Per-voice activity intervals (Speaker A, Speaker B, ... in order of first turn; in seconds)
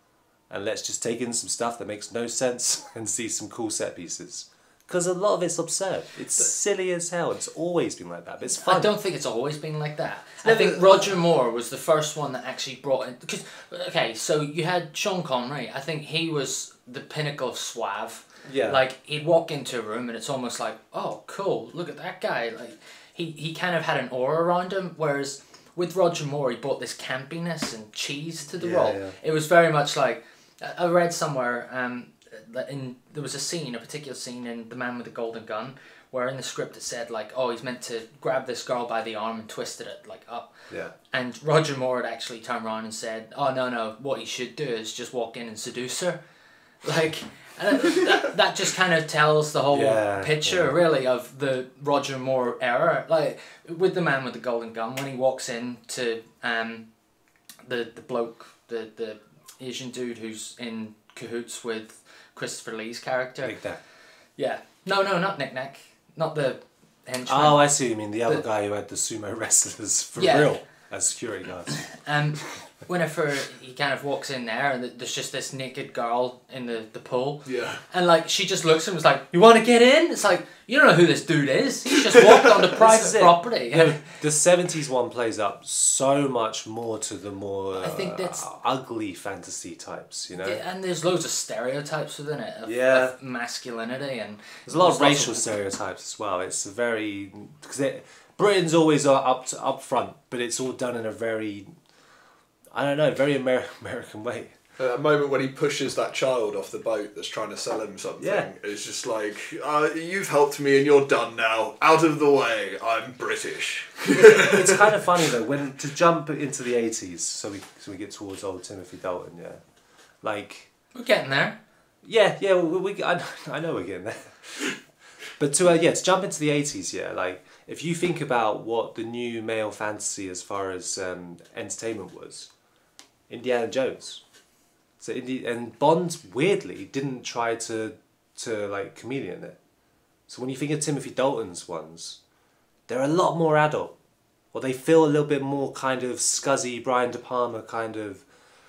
Speaker A: 0.5-8.9, 10.4-11.2, 18.4-18.8, 28.6-29.1, 49.7-50.7, 63.4-63.8, 67.2-71.9, 82.7-90.6, 92.7-93.1, 94.7-101.7, 102.7-104.5, 108.2-108.5, 114.1-119.6, 120.2-120.7, 122.0-124.8, 125.4-132.5, 133.3-134.2, 135.0-139.6, 140.3-142.2, 142.9-143.9, 144.5-148.2
Speaker B: 8.5-40.5, 41.1-46.2, 46.8-56.9, 57.6-63.5, 64.4-67.7, 70.2-70.5, 71.7-84.0, 87.8-88.4, 90.3-95.5, 120.9-121.6
Speaker C: 77.5-77.8, 104.8-115.2